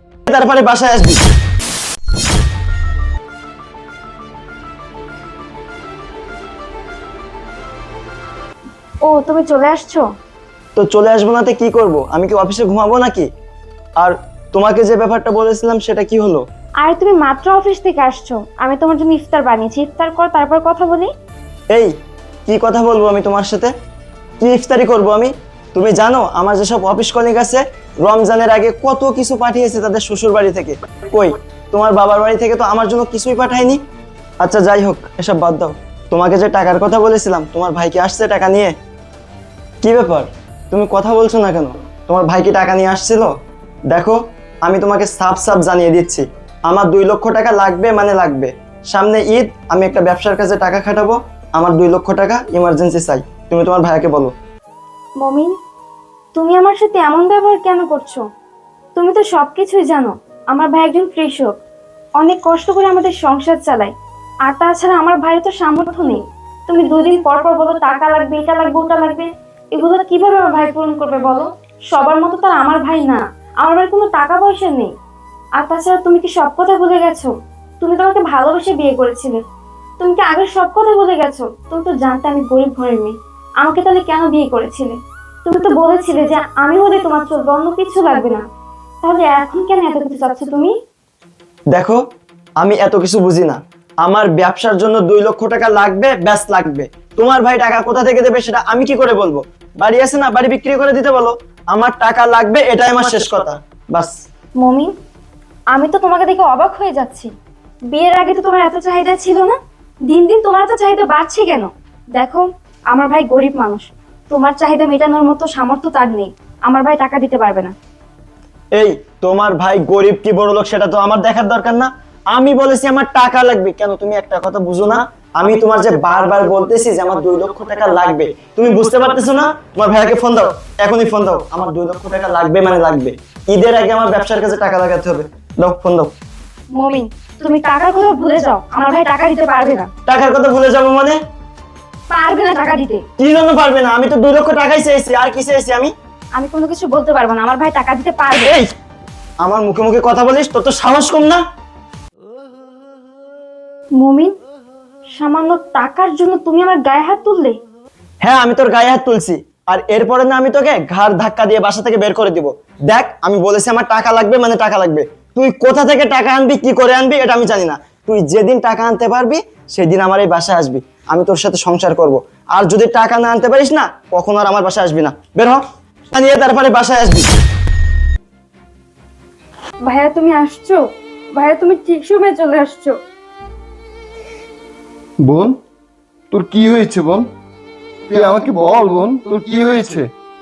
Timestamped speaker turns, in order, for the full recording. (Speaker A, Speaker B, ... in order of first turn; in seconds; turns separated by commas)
Speaker A: 0.3-1.2, Speaker B: 9.1-10.0, Speaker A: 10.8-13.3, Speaker A: 14.0-16.4, Speaker B: 16.8-21.1, Speaker A: 22.5-23.7, Speaker A: 24.4-33.8, Speaker A: 34.4-38.7, Speaker A: 39.8-43.3, Speaker A: 43.9-54.3, Speaker B: 55.2-55.5, Speaker B: 56.4-58.2, Speaker B: 59.0-61.6, Speaker B: 62.2-63.9, Speaker B: 64.4-74.9, Speaker B: 75.6-79.4, Speaker B: 80.0-88.4, Speaker B: 89.0-90.7, Speaker A: 91.7-92.0, Speaker A: 92.6-104.1, Speaker B: 104.6-104.9, Speaker B: 105.7-107.3, Speaker B: 107.9-109.5, Speaker B: 110.1-117.7, Speaker A: 118.7-136.1, Speaker B: 136.7-139.9, Speaker A: 140.1-141.2, Speaker B: 142.1-143.0, Speaker A: 143.2-145.9, Speaker B: 146.3-148.5, Speaker A: 148.4-148.7, Speaker A: 149.4-151.4, Speaker B: 154.0-154.3, Speaker B: 155.2-157.6, Speaker A: 158.2-177.3, Speaker B: 179.8-183.0, Speaker C: 185.2-185.6, Speaker C: 186.3-187.3, Speaker A: 188.1-190.0, Speaker C: 188.1-190.1